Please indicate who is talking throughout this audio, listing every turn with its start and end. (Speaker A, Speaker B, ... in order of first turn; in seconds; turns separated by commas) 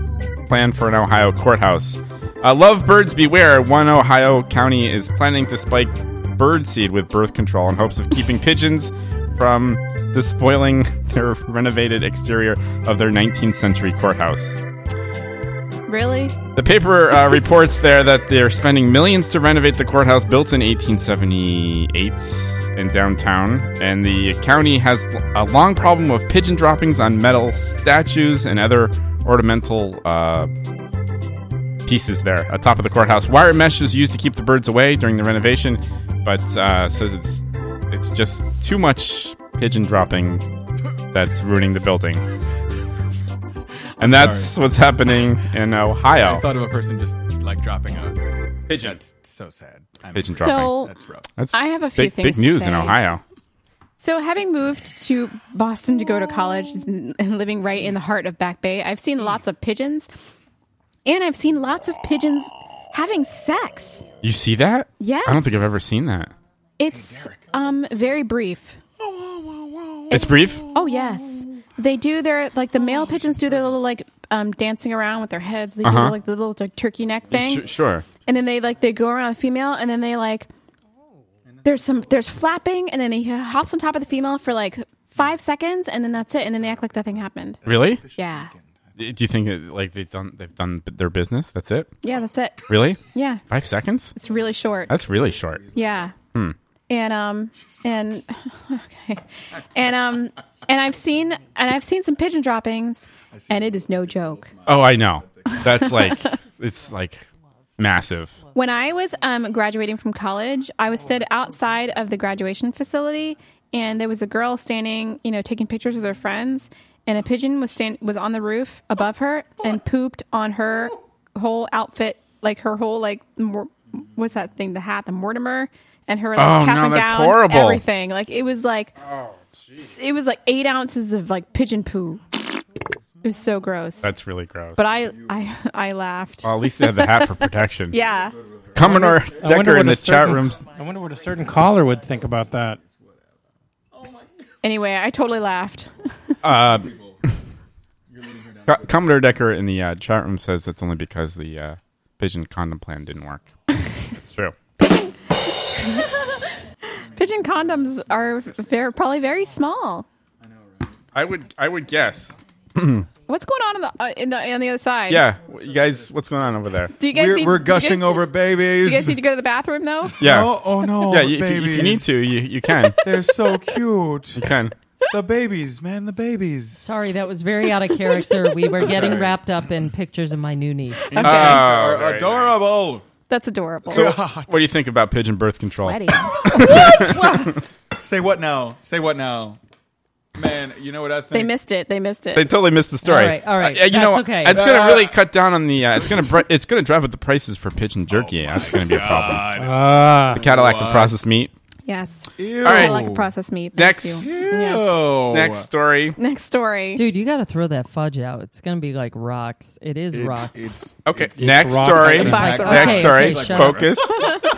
Speaker A: 0.5-14.6, Speaker B: 15.9-16.4, Speaker A: 16.6-30.5, Speaker A: 31.9-40.4, Speaker A: 41.1-42.2, Speaker C: 44.0-44.5, Speaker A: 44.0-46.4, Speaker C: 46.2-48.2, Speaker A: 48.7-49.0, Speaker C: 48.7-51.3, Speaker A: 50.1-53.2, Speaker B: 50.3-50.9, Speaker B: 51.5-53.0, Speaker B: 54.0-60.1, Speaker B: 61.0-64.0, Speaker A: 64.2-66.3, Speaker B: 65.0-65.6, Speaker B: 66.8-68.8, Speaker C: 67.0-67.4, Speaker C: 69.0-71.4, Speaker A: 70.1-70.6, Speaker B: 70.1-77.7, Speaker A: 75.8-76.2, Speaker A: 77.3-78.0, Speaker B: 78.2-80.5, Speaker B: 81.6-87.6, Speaker C: 87.6-88.8, Speaker A: 87.7-88.0, Speaker B: 88.2-88.5, Speaker A: 89.0-91.9, Speaker B: 92.0-93.4, Speaker A: 92.7-94.1, Speaker B: 94.2-94.9, Speaker A: 94.9-95.6, Speaker C: 95.3-96.0, Speaker B: 95.7-96.1, Speaker B: 96.9-99.2, Speaker C: 97.6-97.8, Speaker B: 99.7-104.5, Speaker C: 103.3-105.6, Speaker A: 104.7-107.3, Speaker B: 105.6-106.3, Speaker A: 107.8-108.4, Speaker B: 108.5-128.9, Speaker A: 126.3-127.8, Speaker B: 129.8-132.4, Speaker B: 133.2-134.1, Speaker A: 134.0-134.8, Speaker B: 134.8-137.3, Speaker A: 136.4-138.0, Speaker B: 137.9-138.3, Speaker C: 138.4-139.4, Speaker A: 138.7-140.7, Speaker D: 138.9-142.8, Speaker C: 142.8-143.2, Speaker C: 143.9-144.3, Speaker B: 144.6-146.3, Speaker A: 146.4-146.9, Speaker C: 146.5-147.2, Speaker C: 148.1-149.3, Speaker A: 148.7-153.4, Speaker B: 154.8-156.4, Speaker B: 157.1-160.1, Speaker C: 160.4-161.0, Speaker A: 161.1-163.1, Speaker B: 163.3-165.2, Speaker A: 165.1-166.9, Speaker B: 167.0-170.2, Speaker C: 167.1-169.2, Speaker C: 170.2-172.2, Speaker A: 170.2-173.0, Speaker C: 173.0-174.5, Speaker A: 174.4-174.7, Speaker C: 175.1-176.9, Speaker E: 176.8-181.3, Speaker C: 178.8-179.3, Speaker C: 181.1-183.0, Speaker A: 181.2-182.7, Speaker B: 181.2-181.6, Speaker B: 183.3-184.2, Speaker A: 183.9-187.4, Speaker C: 183.9-184.6, Speaker B: 185.8-186.6, Speaker C: 186.4-189.6, Speaker C: 190.3-191.5, Speaker B: 191.3-192.5, Speaker A: 192.3-199.5, Speaker E: 193.0-194.6, Speaker C: 194.5-195.2, Speaker C: 196.0-196.3, Speaker C: 198.1-201.2, Speaker D: 199.5-200.5, Speaker A: 200.3-201.5, Speaker B: 201.8-205.1, Speaker C: 202.3-203.3, Speaker A: 202.6-203.0, Speaker A: 203.7-204.4, Speaker C: 204.2-205.7, Speaker A: 205.3-206.2, Speaker B: 206.2-207.0, Speaker E: 206.9-210.7, Speaker C: 210.1-214.1, Speaker A: 211.1-214.1, Speaker D: 211.4-212.6, Speaker E: 212.2-213.9, Speaker B: 212.2-213.0